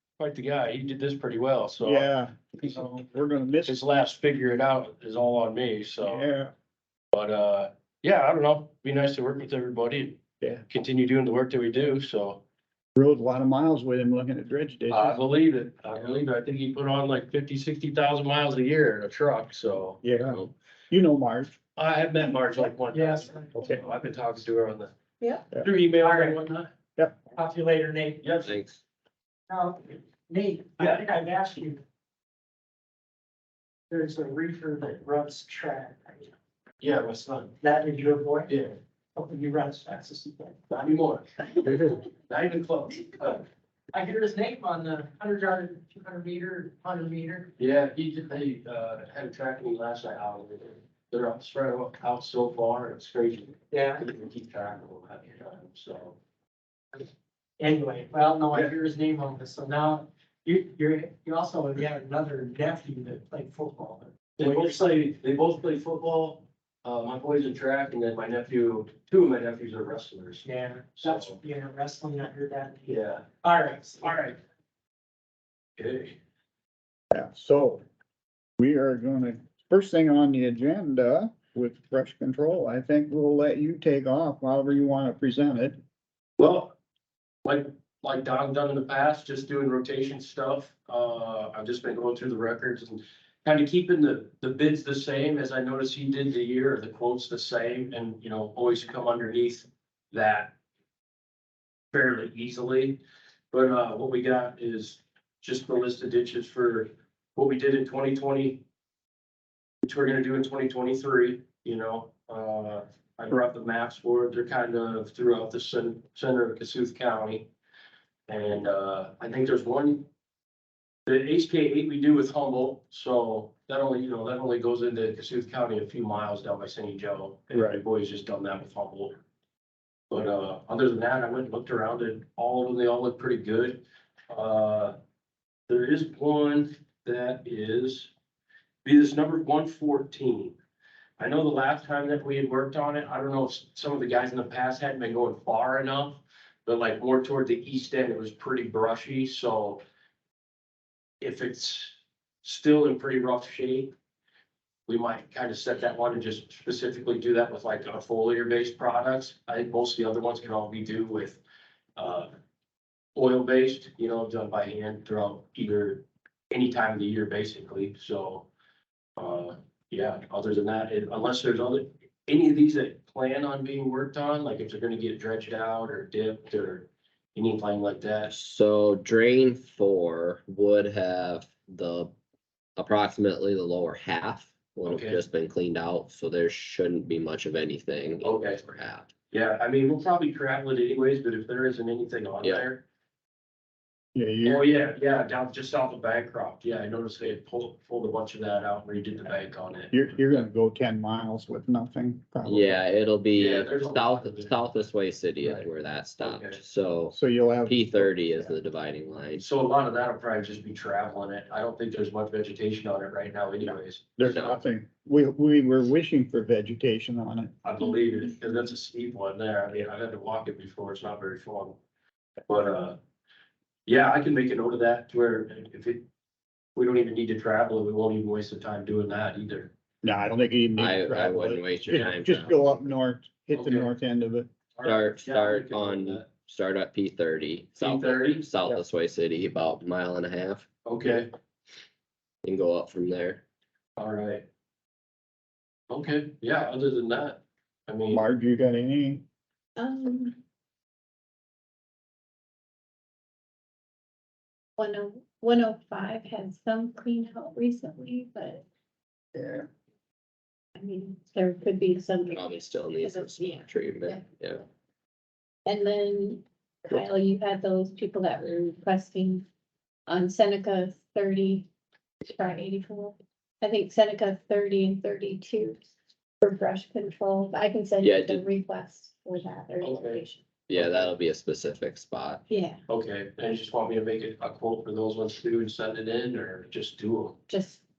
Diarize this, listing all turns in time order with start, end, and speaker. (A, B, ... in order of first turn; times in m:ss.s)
0:00.2-0:03.0 A
0:01.8-0:03.8 B
0:03.6-0:06.3 A
0:06.0-0:06.5 B
0:07.1-0:12.4 A
0:13.0-0:15.2 B
0:14.9-0:20.0 A
0:20.0-0:21.6 B
0:20.3-0:20.5 C
0:21.8-0:24.9 A
0:22.9-0:23.5 D
0:25.2-0:25.5 E
0:25.5-0:26.7 A
0:26.0-0:26.4 D
0:27.3-0:28.3 D
0:28.2-0:28.6 A
0:28.4-0:28.8 C
0:29.5-0:31.8 D
0:30.8-0:31.0 A
0:33.9-0:36.3 D
0:36.8-0:37.5 A
0:37.6-0:38.5 D
0:38.5-0:38.8 A
0:39.2-0:40.6 D
0:40.7-0:43.4 A
0:43.9-0:47.5 D
0:47.6-0:56.2 A
0:53.7-0:54.0 D
0:57.6-1:04.7 D
1:04.4-1:11.4 A
1:10.4-1:14.1 D
1:12.9-1:13.3 A
1:14.0-1:14.4 A
1:15.8-1:16.2 A
1:17.1-1:17.8 B
1:18.6-1:25.8 B
1:26.4-1:26.8 A
1:27.4-1:40.5 A
1:41.9-1:43.0 A
1:43.5-1:48.6 A
1:49.8-1:57.5 A
1:58.3-2:00.1 A
2:01.1-2:09.2 A
2:07.6-2:07.8 B
2:10.1-2:15.0 A
2:15.7-2:18.1 A
2:18.8-2:20.6 A
2:21.2-2:29.8 A
2:31.2-2:33.9 A
2:34.9-2:41.4 A
2:42.0-2:42.3 A
2:43.2-2:48.5 A
2:49.2-2:58.3 A
2:58.3-3:02.1 C
3:02.8-3:09.1 C
3:04.8-3:05.2 A
3:08.2-3:08.6 A
3:09.3-3:12.8 A
3:12.4-3:12.7 C
3:14.2-3:14.7 B
3:14.4-3:20.0 A
3:19.9-3:22.8 B
3:22.4-3:29.4 C
3:23.3-3:24.6 A
3:25.4-3:26.6 A
3:27.1-3:28.5 B
3:29.4-3:34.4 A
3:33.6-3:37.5 B
3:34.2-3:34.6 C
3:37.6-3:41.8 A
3:42.5-3:43.0 A
3:43.9-3:46.1 A
3:46.8-3:49.7 A
3:50.0-3:54.5 B
3:50.8-3:52.9 C
3:53.5-3:53.9 A
3:54.8-3:56.3 A
3:54.8-4:00.7 C
3:57.8-3:58.8 A
4:00.8-4:01.3 A
4:02.4-4:03.4 C
4:04.0-4:04.5 A
4:05.9-4:08.3 A
4:08.1-4:09.2 B
4:09.8-4:10.4 E
4:14.8-4:18.6 E
4:19.4-4:19.7 B
4:20.8-4:24.2 E
4:22.3-4:24.6 C
4:25.7-4:29.4 E
4:30.1-4:31.7 E
4:32.2-4:35.8 E
4:36.4-4:40.4 E
4:38.0-4:38.5 C
4:39.8-4:41.2 A
4:40.7-4:42.4 C
4:42.5-4:42.8 E
4:42.9-4:47.4 A
4:47.5-4:47.8 E